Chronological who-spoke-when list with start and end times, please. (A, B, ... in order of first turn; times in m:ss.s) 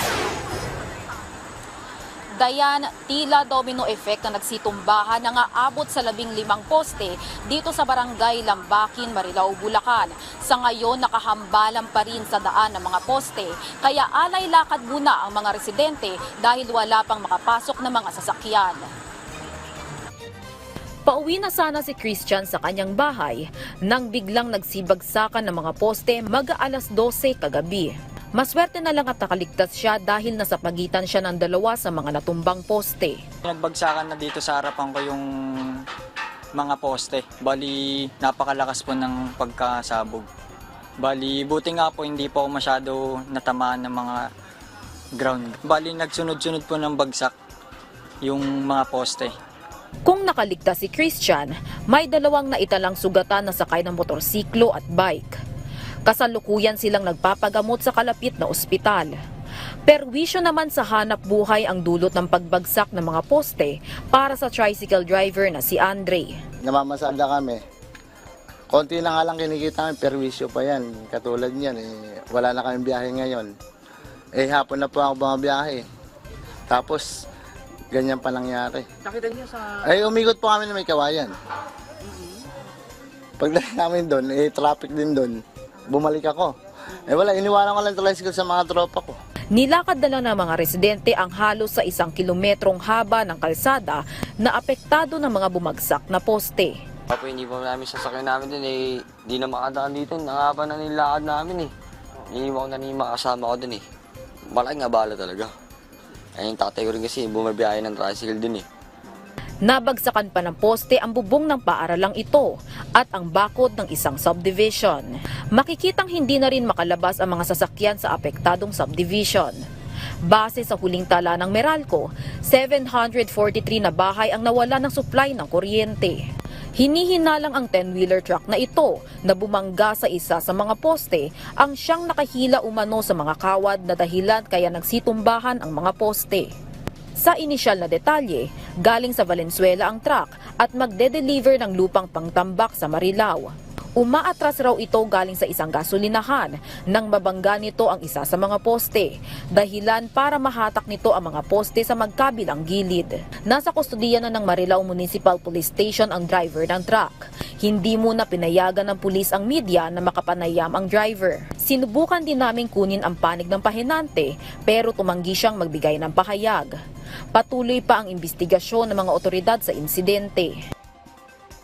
0:02.4-0:18.8 A
0:21.1-0:33.2 A
0:33.4-0:35.2 B
0:36.6-0:40.3 B
0:41.0-0:44.2 B
0:45.2-0:47.3 B
0:48.2-0:49.3 B
0:50.1-0:55.3 A
0:56.1-0:59.1 A
0:59.9-1:06.3 A
1:06.7-1:07.6 C
1:08.7-1:13.5 C
1:14.4-1:15.8 C
1:16.7-1:17.1 C
1:17.9-1:18.9 C
1:19.8-1:21.3 C
1:23.4-1:25.4 C
1:25.9-1:29.2 C
1:29.5-1:36.7 A
1:37.1-1:41.7 D
1:42.3-1:43.8 D
1:44.5-1:45.5 D
1:46.4-1:48.6 D
1:49.6-1:59.6 A
2:00.3-2:06.2 A
2:06.8-2:16.5 A
2:17.2-2:46.7 A
2:47.4-2:50.5 A